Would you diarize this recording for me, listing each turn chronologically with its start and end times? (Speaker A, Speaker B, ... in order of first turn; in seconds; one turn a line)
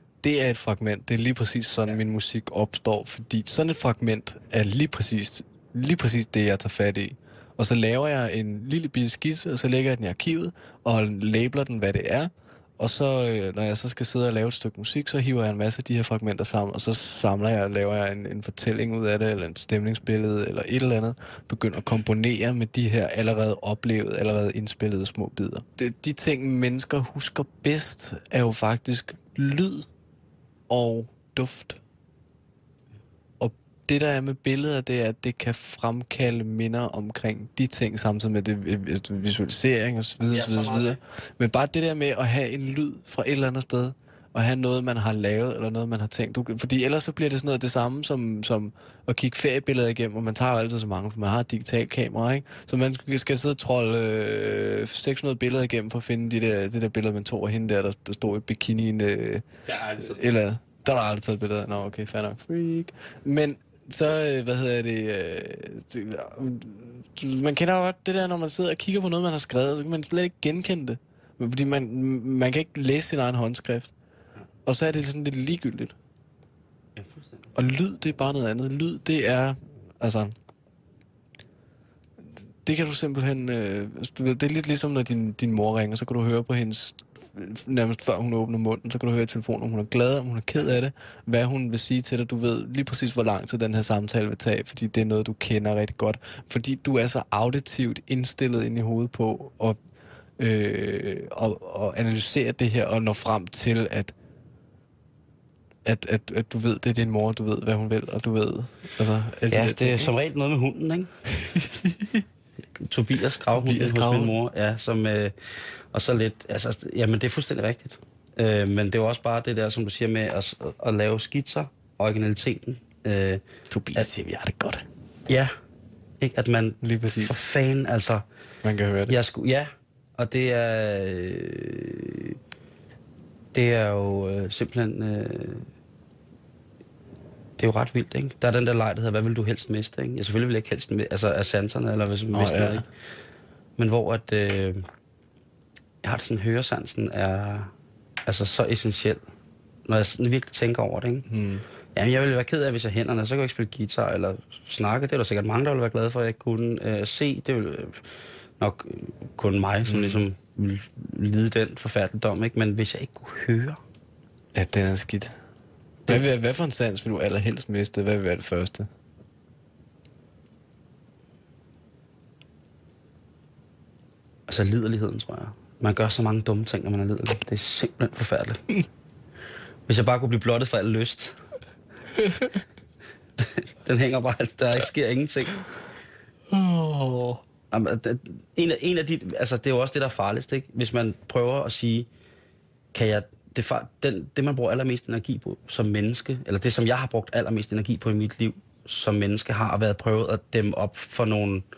Speaker A: 0.2-29.9
Speaker A: 30.7-31.8
Speaker A: 33.4-73.9
Speaker B: 40.2-41.0
Speaker B: 59.7-60.2
Speaker A: 74.6-75.9
Speaker B: 77.0-77.4
Speaker A: 77.5-80.3
Speaker A: 82.6-99.8
Speaker A: 100.4-104.1
Speaker A: 105.8-110.1
Speaker B: 109.5-111.1
Speaker A: 111.4-112.2
Speaker B: 112.8-115.3
Speaker A: 113.5-114.3
Speaker B: 115.9-123.4
Speaker A: 123.7-124.8
Speaker B: 126.2-128.2
Speaker A: 126.8-127.4
Speaker A: 128.6-129.2
Speaker B: 129.1-132.3
Speaker B: 133.5-135.7
Speaker B: 137.6-142.8
Speaker A: 142.3-142.8
Speaker B: 143.8-144.8
Speaker B: 146.0-147.7
Speaker B: 148.3-149.2
Speaker B: 149.9-151.3
Speaker A: 151.3-151.6
Speaker B: 151.9-158.0
Speaker B: 158.6-163.8
Speaker A: 159.8-160.2
Speaker A: 164.5-165.3
Speaker A: 166.1-168.9
Speaker B: 174.5-178.7
Speaker B: 179.9-181.3
Speaker A: 182.2-182.5
Speaker B: 183.4-185.6
Speaker A: 186.5-187.4
Speaker B: 187.7-192.1
Speaker B: 192.9-201.6